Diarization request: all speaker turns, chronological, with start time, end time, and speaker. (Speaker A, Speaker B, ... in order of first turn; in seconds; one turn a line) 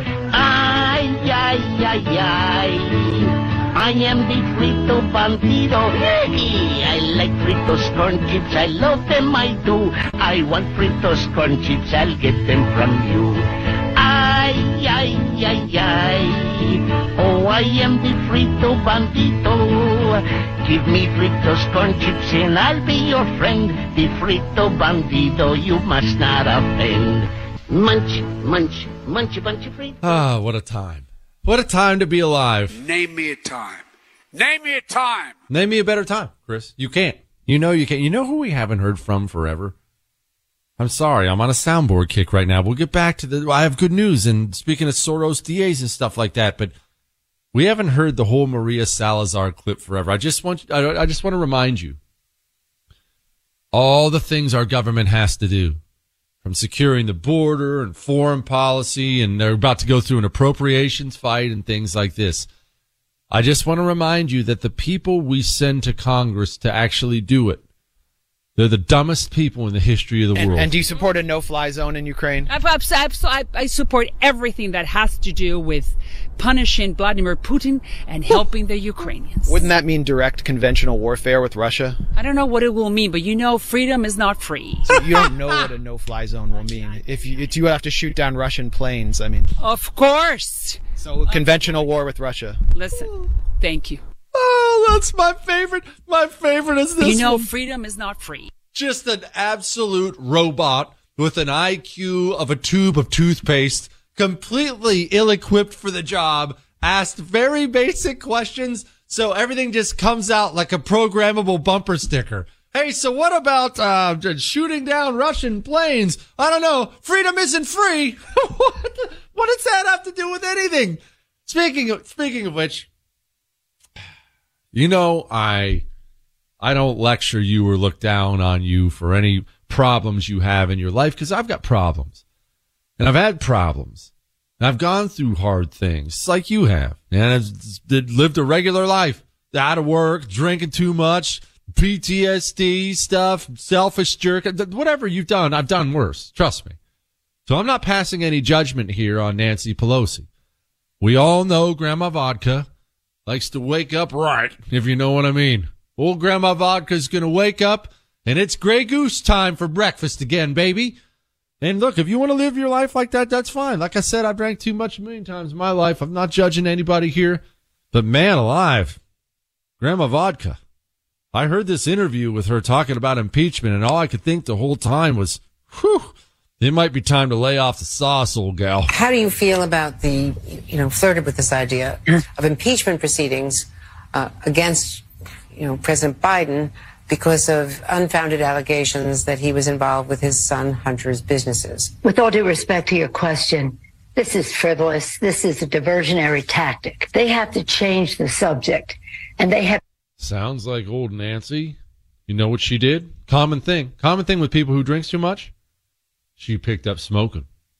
Speaker A: 0.3-13.4
Speaker A: 13.9-30.0
Speaker B: 30.0-32.8
Speaker C: 32.8-33.8
Speaker C: 34.3-35.3
Speaker B: 35.5-39.7
Speaker B: 40.8-46.7
Speaker B: 47.5-52.0
Speaker B: 53.7-55.8
Speaker B: 56.4-62.5
Speaker B: 63.3-67.6
Speaker B: 68.5-70.8
Speaker D: 70.3-72.5
Speaker E: 72.5-79.7
Speaker D: 79.5-82.0
Speaker E: 82.1-85.3
Speaker D: 84.8-89.5
Speaker E: 86.5-87.0
Speaker E: 89.6-91.9
Speaker D: 91.0-92.6
Speaker E: 92.7-94.0
Speaker B: 94.3-97.5
Speaker E: 97.0-98.5
Speaker B: 98.7-122.9
Speaker B: 124.7-125.8
Speaker B: 126.6-132.2
Speaker B: 133.0-146.8
Speaker B: 147.5-150.3
Speaker B: 151.0-152.7
Speaker B: 153.2-161.0
Speaker B: 161.6-169.0
Speaker B: 169.8-170.6
Speaker B: 171.3-178.9
Speaker F: 178.9-191.9
Speaker G: 192.0-199.8
Speaker B: 200.2-205.5
Speaker B: 206.4-207.4